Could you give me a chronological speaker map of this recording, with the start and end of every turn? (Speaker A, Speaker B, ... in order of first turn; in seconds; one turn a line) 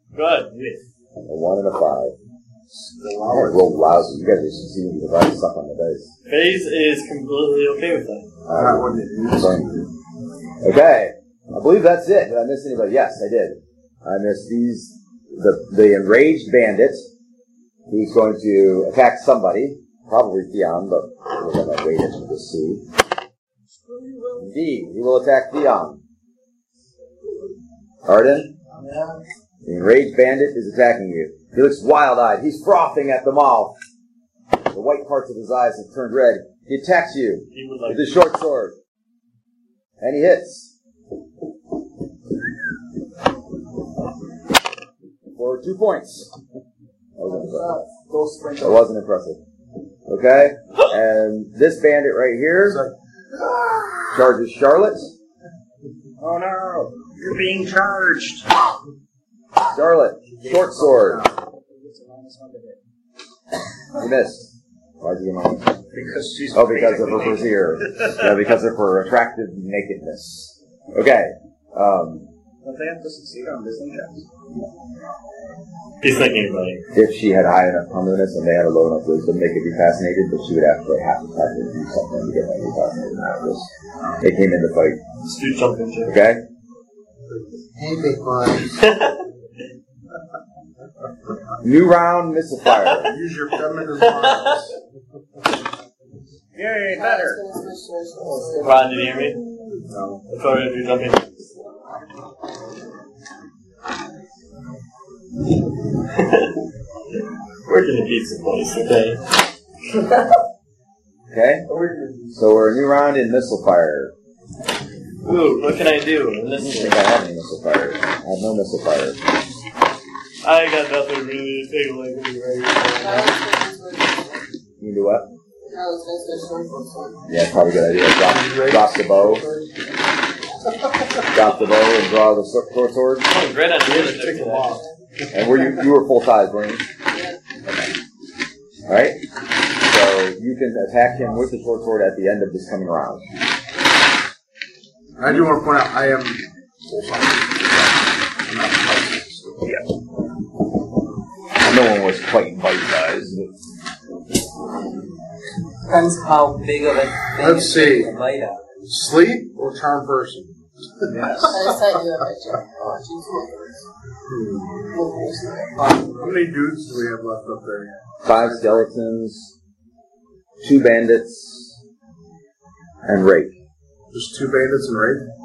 Speaker A: 0.1-0.8
Speaker B: 1.2-2.1
Speaker C: 2.8-4.1
Speaker B: 3.3-6.1
Speaker A: 6.3-8.3
Speaker B: 8.4-9.9
Speaker C: 8.5-9.9
Speaker B: 10.6-17.1
Speaker B: 17.9-22.9
Speaker B: 24.4-26.0
Speaker B: 28.1-28.5
Speaker C: 28.8-29.0
Speaker B: 29.6-33.8
Speaker B: 34.7-38.8
Speaker A: 37.5-38.1
Speaker B: 40.0-40.7
Speaker B: 45.4-46.3
Speaker B: 47.2-47.8
Speaker D: 47.6-48.8
Speaker B: 48.6-49.4
Speaker B: 50.1-52.8
Speaker C: 52.6-54.2
Speaker B: 54.1-55.1
Speaker D: 56.2-58.5
Speaker B: 59.7-61.3
Speaker C: 60.3-61.4
Speaker D: 61.6-62.8
Speaker B: 64.0-65.8
Speaker D: 65.9-67.6
Speaker B: 66.5-72.3
Speaker D: 72.6-74.2
Speaker A: 76.0-76.8
Speaker B: 76.9-85.0
Speaker A: 85.2-86.2
Speaker B: 86.1-86.4
Speaker C: 87.3-88.9
Speaker A: 88.8-89.2
Speaker B: 91.6-93.2
Speaker A: 92.7-93.0
Speaker C: 93.0-94.8
Speaker A: 94.0-94.6
Speaker D: 96.5-97.4
Speaker E: 96.9-98.9
Speaker A: 98.6-99.4
Speaker C: 99.8-100.2
Speaker A: 100.3-101.5
Speaker A: 106.1-106.6
Speaker A: 107.7-109.2
Speaker B: 111.3-111.7
Speaker C: 111.7-112.3
Speaker B: 112.3-114.1
Speaker A: 115.2-117.0
Speaker B: 116.6-119.2
Speaker A: 120.4-123.3
Speaker E: 122.9-124.4
Speaker B: 124.8-125.3
Speaker E: 125.7-127.2
Speaker B: 127.3-129.5
Speaker C: 128.2-129.7
Speaker B: 131.3-133.3
Speaker A: 133.2-134.8
Speaker C: 133.8-135.8
Speaker B: 135.3-136.9
Speaker B: 137.7-137.9
Speaker B: 138.9-139.2
Speaker B: 139.7-143.2
Speaker C: 145.2-147.9
Speaker C: 148.4-149.8
Speaker B: 151.6-153.5
Speaker F: 155.8-158.6
Speaker C: 157.4-158.1
Speaker C: 158.9-161.7
Speaker D: 161.1-161.5
Speaker E: 161.4-163.8
Speaker C: 164.3-164.8
Speaker E: 164.9-166.1
Speaker C: 166.1-168.9
Speaker B: 168.2-169.5
Speaker B: 170.6-171.8
Speaker B: 173.0-173.5
Speaker C: 174.1-175.2